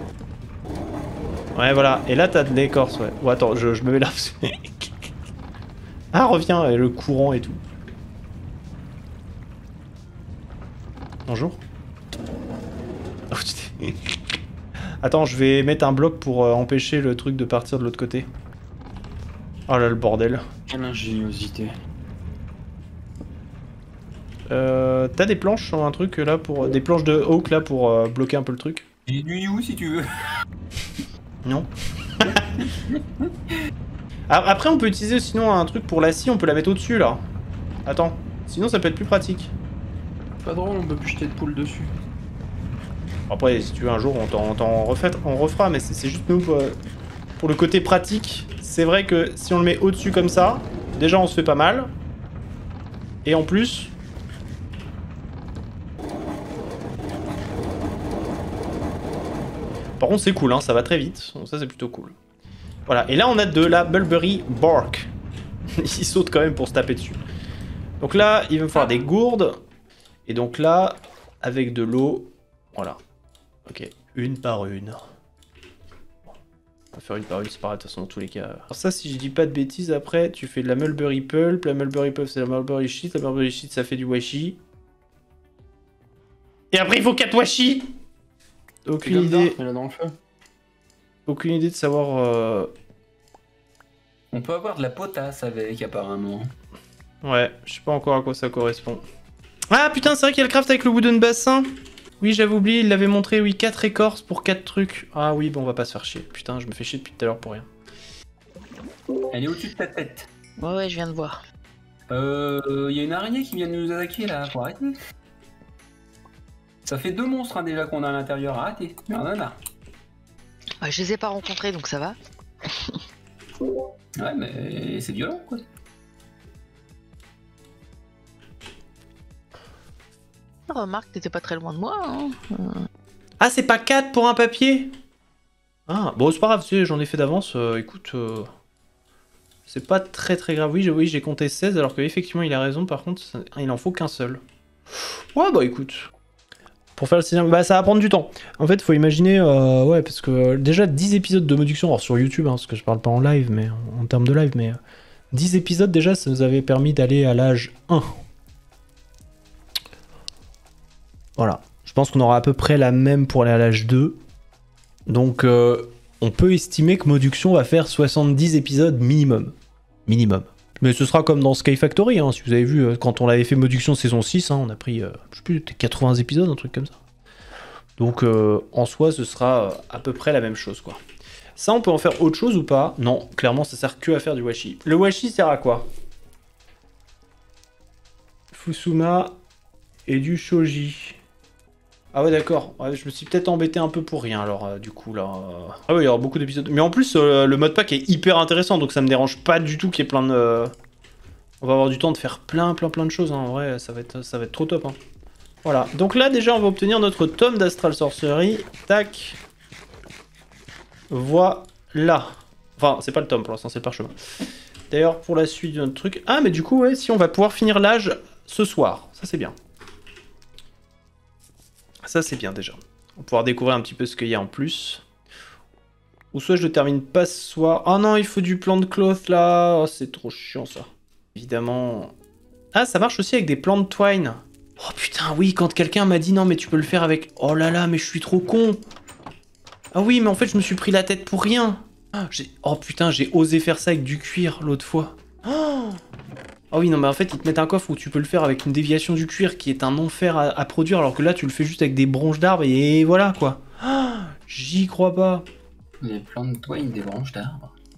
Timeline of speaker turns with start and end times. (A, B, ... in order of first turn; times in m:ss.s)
0:01.5-0:04.9 A
0:06.1-0:07.6 A
0:11.3-0:11.6 A
0:13.3-0:14.2 A
0:15.0-0:18.3 A
0:19.7-0:20.4 A
0:20.7-0:21.7 B
0:24.5-0:28.8 A
0:29.0-0:30.1 C
0:31.4-0:32.6 A
0:32.2-0:33.5 C
0:34.3-0:37.2 A
0:37.8-0:39.5 A
0:40.4-0:41.9 B
0:43.3-0:46.8 A
0:47.4-0:51.9 A
0:53.2-0:53.9 A
1:00.0-1:02.1 A
1:02.9-1:05.1 A
1:05.7-1:07.2 A
1:08.0-1:09.6 A
1:10.3-1:13.0 A
1:13.7-1:15.0 A
1:16.9-1:24.6 A
1:26.7-1:27.9 A
1:28.8-1:29.6 A
1:29.0-1:30.2 B
1:31.2-1:32.7 A
1:34.3-1:36.5 C
1:37.2-1:39.0 A
1:39.7-1:47.7 A
1:49.3-1:50.3 C
1:50.6-1:51.4 D
1:52.1-1:55.0 C
1:56.8-1:59.6 C
2:00.8-2:02.2 D
2:04.2-2:05.6 C
2:10.7-2:12.9 D
2:13.4-2:14.9 A
2:15.9-2:18.5 A
2:19.7-2:26.1 A
2:27.0-2:34.8 A
2:35.3-2:38.1 A
2:41.4-2:44.2 A
2:45.1-2:49.5 A
2:50.0-2:57.0 A
2:58.0-3:01.0 A
3:01.6-3:05.9 A
3:08.5-3:09.4 A
3:10.1-3:11.2 A
3:12.1-3:20.7 A
3:21.6-3:25.0 A
3:25.6-3:29.4 A
3:31.1-3:34.2 A
3:34.9-3:39.5 A
3:42.0-3:45.0 A
3:46.3-3:52.1 A
3:52.7-3:58.8 A
3:59.9-4:06.0 A
4:06.7-4:15.4 A
4:16.0-4:17.7 C